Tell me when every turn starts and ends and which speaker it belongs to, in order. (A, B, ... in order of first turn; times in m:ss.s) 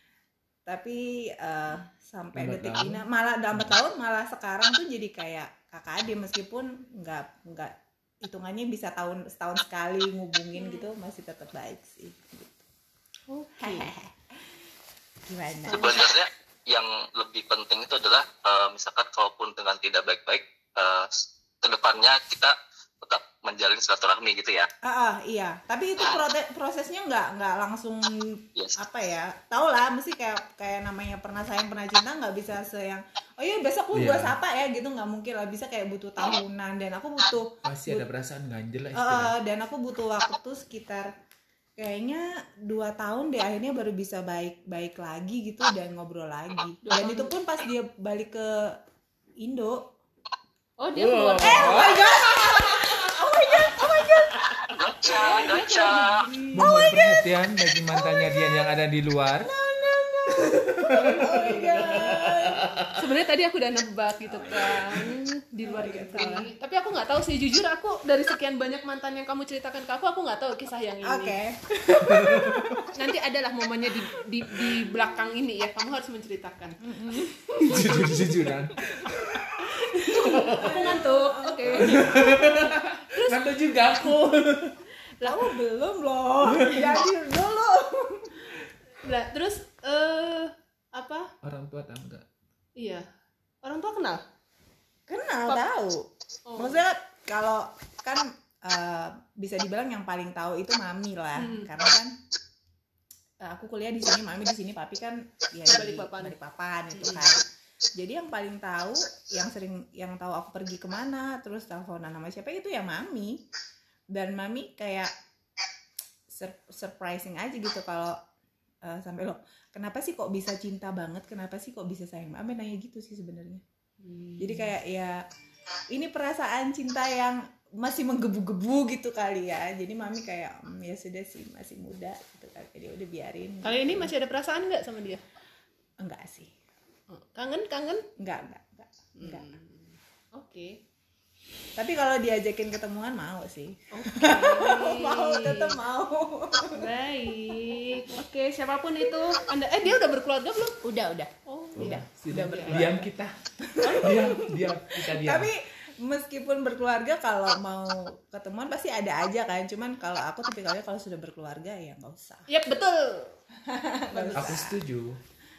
0:00.7-0:12.6 A
0:02.3-0:03.8 B
0:10.5-0:10.9 C
0:13.3-0:13.9 C
0:13.6-0:14.4 A
0:15.3-0:16.1 A
0:15.6-0:16.2 C
0:15.7-0:24.7 D
0:24.8-0:38.0 A
0:33.9-0:34.4 B
0:37.6-0:39.4 B
0:38.9-0:41.1 A
0:41.8-0:48.8 A
0:46.8-0:47.3 C
0:49.4-0:49.9 A
0:50.8-0:52.1 C
0:51.0-0:53.0 B
0:51.4-0:54.5 A
0:53.7-0:54.9 B
0:54.7-0:56.2 D
0:55.1-0:56.7 C
0:56.5-0:57.3 A
0:56.5-0:59.5 B
0:57.9-0:58.5 A
0:59.4-1:02.7 A
1:00.4-1:03.0 B
1:01.1-1:01.8 C
1:03.0-1:11.4 C
1:04.3-1:05.1 B
1:05.6-1:06.5 A
1:11.0-1:13.0 A
1:11.9-1:12.9 B
1:12.9-1:18.2 C
1:16.8-1:18.0 A
1:17.6-1:20.8 B
1:19.7-1:23.5 C
1:20.0-1:22.6 A
1:21.7-1:24.8 B
1:25.2-1:25.6 C
1:25.2-1:28.6 A
1:26.4-1:27.0 B
1:29.0-1:31.3 C
1:31.4-1:32.3 B
1:32.8-1:33.1 C
1:33.6-1:34.2 C
1:35.1-1:42.2 A
1:36.5-1:36.8 C
1:41.4-1:41.7 C
1:43.4-1:47.4 A
1:45.7-1:46.4 C
1:46.9-1:47.3 C
1:48.0-1:53.4 A
1:54.1-1:55.1 A
1:56.3-1:58.2 A
1:58.8-2:03.6 A
2:04.0-2:04.7 C
2:04.4-2:05.2 A
2:05.9-2:14.1 A
2:13.6-2:15.2 C
2:16.0-2:16.5 A
2:17.1-2:18.0 C
2:18.2-2:19.5 A
2:19.2-2:20.8 C
2:21.8-2:26.9 A
2:23.9-2:25.8 C
2:26.7-2:30.8 C
2:30.8-2:33.1 A
2:31.4-2:32.9 C
2:31.8-2:33.3 B
2:33.7-2:34.1 A
2:33.8-2:34.5 C
2:34.0-2:35.5 B
2:35.1-2:42.5 A
2:42.5-2:43.4 C
2:43.7-2:44.8 A
2:44.1-2:44.6 C
2:44.4-2:45.2 B